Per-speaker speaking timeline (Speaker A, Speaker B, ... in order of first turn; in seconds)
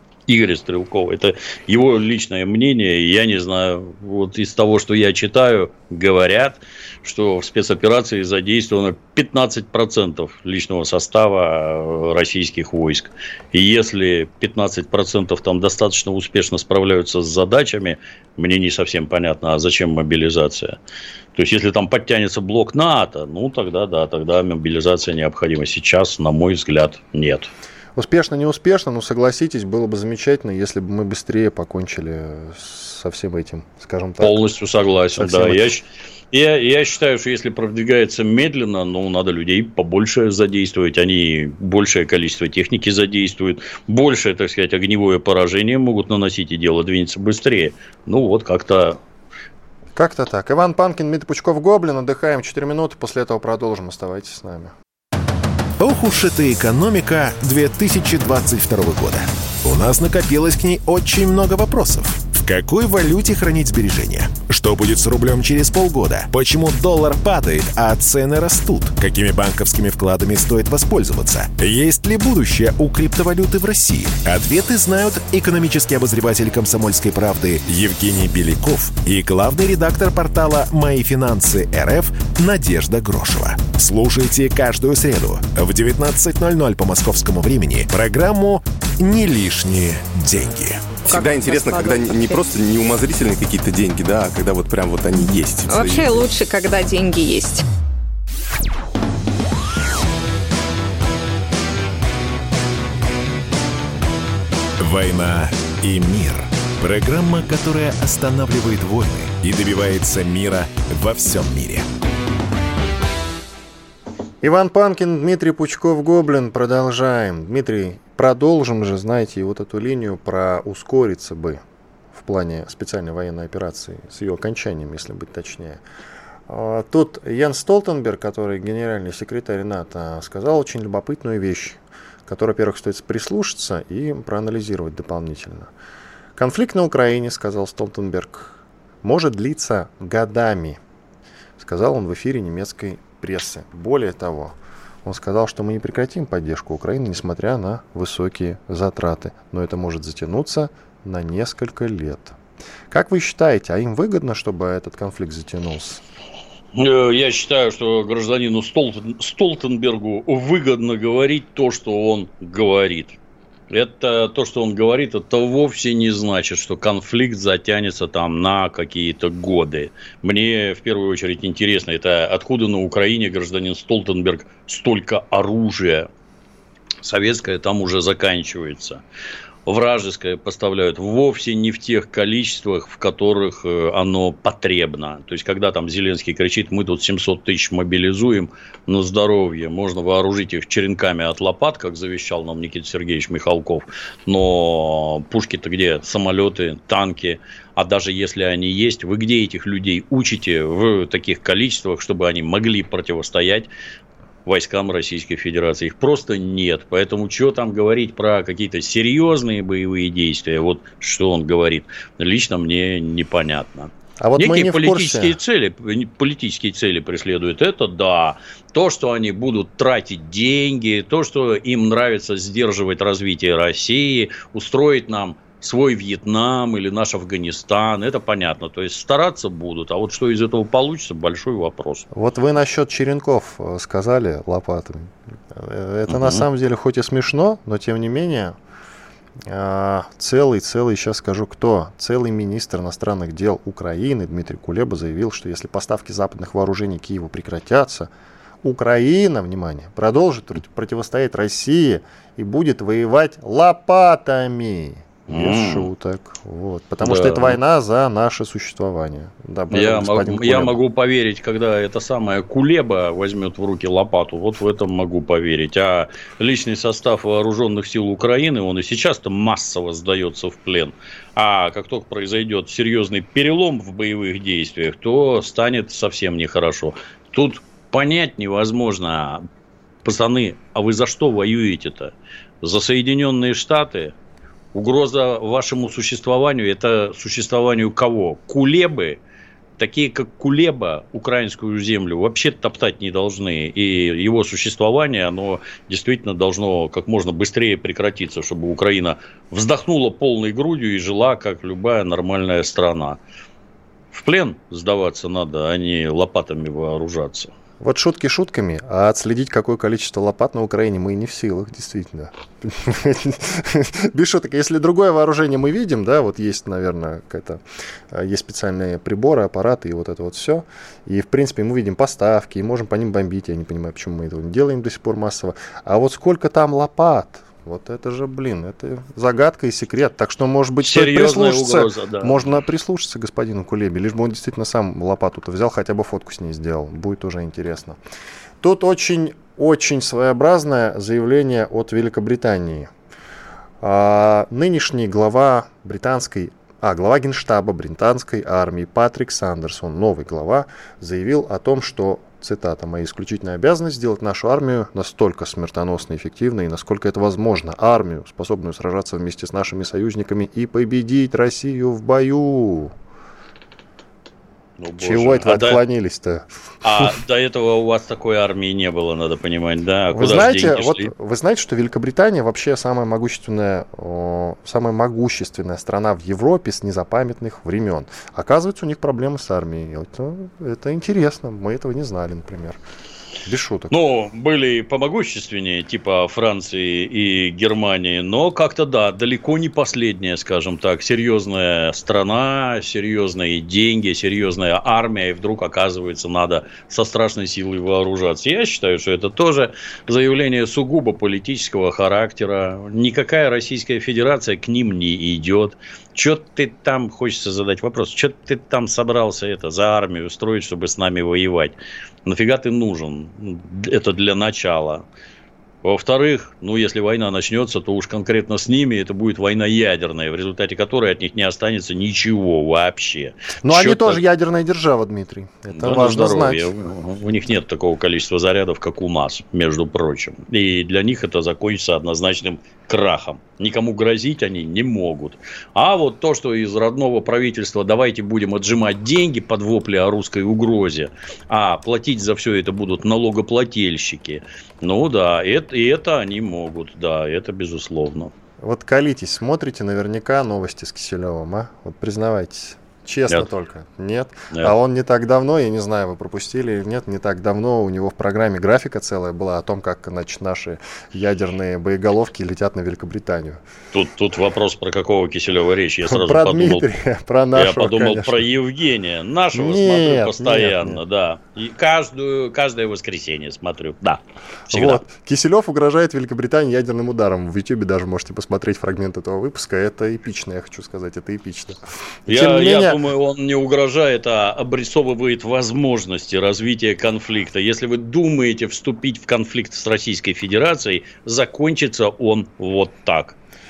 Speaker A: 0.3-20.8, 21.4-27.5, 34.2-49.0, 156.8-163.2, 163.7-176.1, 177.0-179.0, 179.7-203.7, 204.5-232.1, 236.1-236.4, 255.3-255.9, 257.0-257.6, 259.7-279.4, 280.0-284.1, 284.7-289.2, 289.8-303.2, 304.1-307.5, 330.8-332.4, 364.8-365.8, 366.8-371.1, 383.9-415.0, 415.8-424.2, 425.7-448.3, 463.9-466.9, 467.5-475.0, 482.3-493.4
Speaker B: 28.0-34.4, 35.2-35.7, 50.0-54.7, 114.4-121.6, 122.1-125.8, 126.5-135.7, 136.4-140.8, 141.6-152.3, 152.9-156.0, 214.2-215.4, 232.1-238.6, 239.5-248.1, 248.6-260.8, 307.8-338.0, 338.6-342.9, 343.8-362.9, 365.0-366.5, 370.1-382.8, 383.4-384.0, 423.6-426.7, 448.6-463.6, 466.1-468.4, 469.5-471.0, 474.7-483.0
Speaker C: 55.8-90.9, 104.8-111.8
Speaker D: 91.0-96.3
Speaker E: 91.1-92.4, 95.2-97.7